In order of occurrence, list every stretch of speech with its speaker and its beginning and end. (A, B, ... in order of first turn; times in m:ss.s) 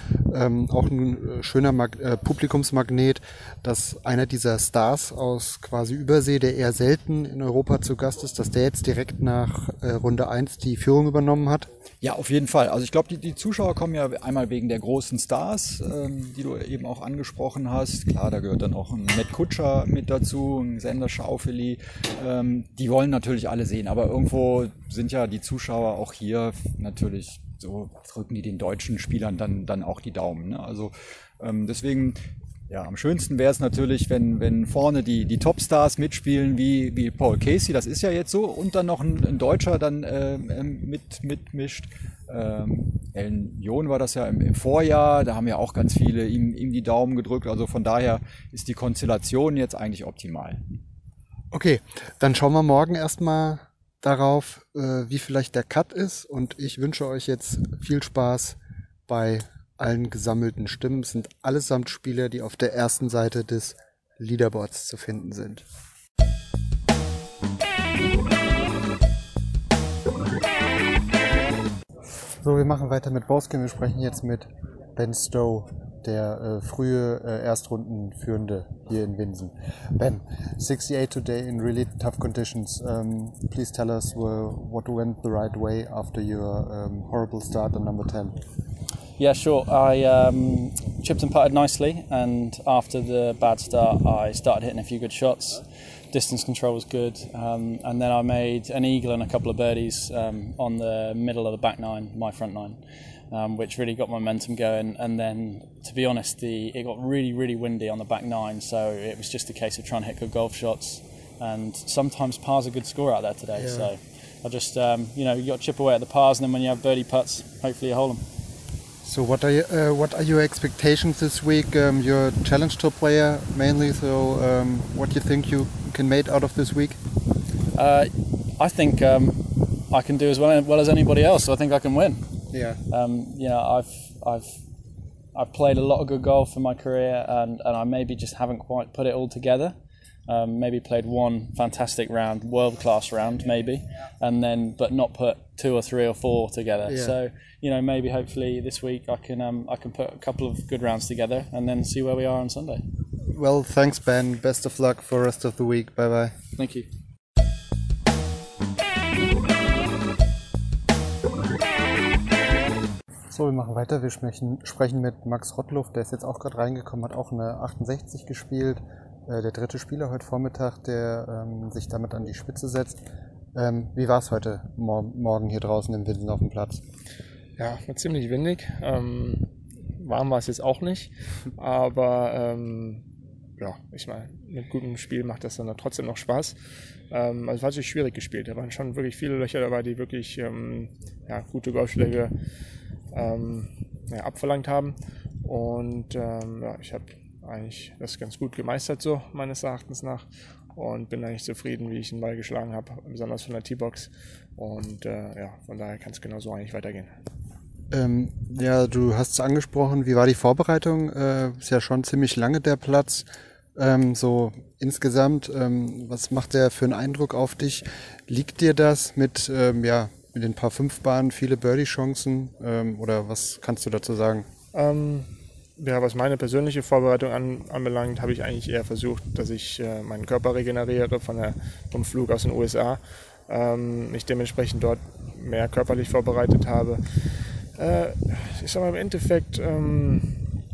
0:00.3-0:11.7 A
0:12.0-0:32.2 B
0:32.7-0:50.6 B
0:51.5-0:58.6 A
0:59.1-1:05.6 A
1:12.4-1:28.3 A
1:29.2-1:42.8 C
1:43.3-1:58.2 C
1:53.5-1:53.9 A
1:59.0-2:07.0 A
2:07.7-2:12.3 C
2:12.5-2:12.8 A
2:12.9-2:14.6 C
2:15.3-2:19.8 C
2:20.3-2:32.8 C
2:26.9-2:27.2 A
2:33.3-2:36.3 A
2:36.6-2:36.9 C
2:43.3-2:53.0 A
2:53.5-2:56.8 A
2:57.6-2:59.5 D
3:00.0-3:03.0 D
3:03.6-3:06.5 D
3:07.1-3:12.3 D
3:13.1-3:27.1 D
3:27.9-3:44.5 A
3:44.8-4:00.4 D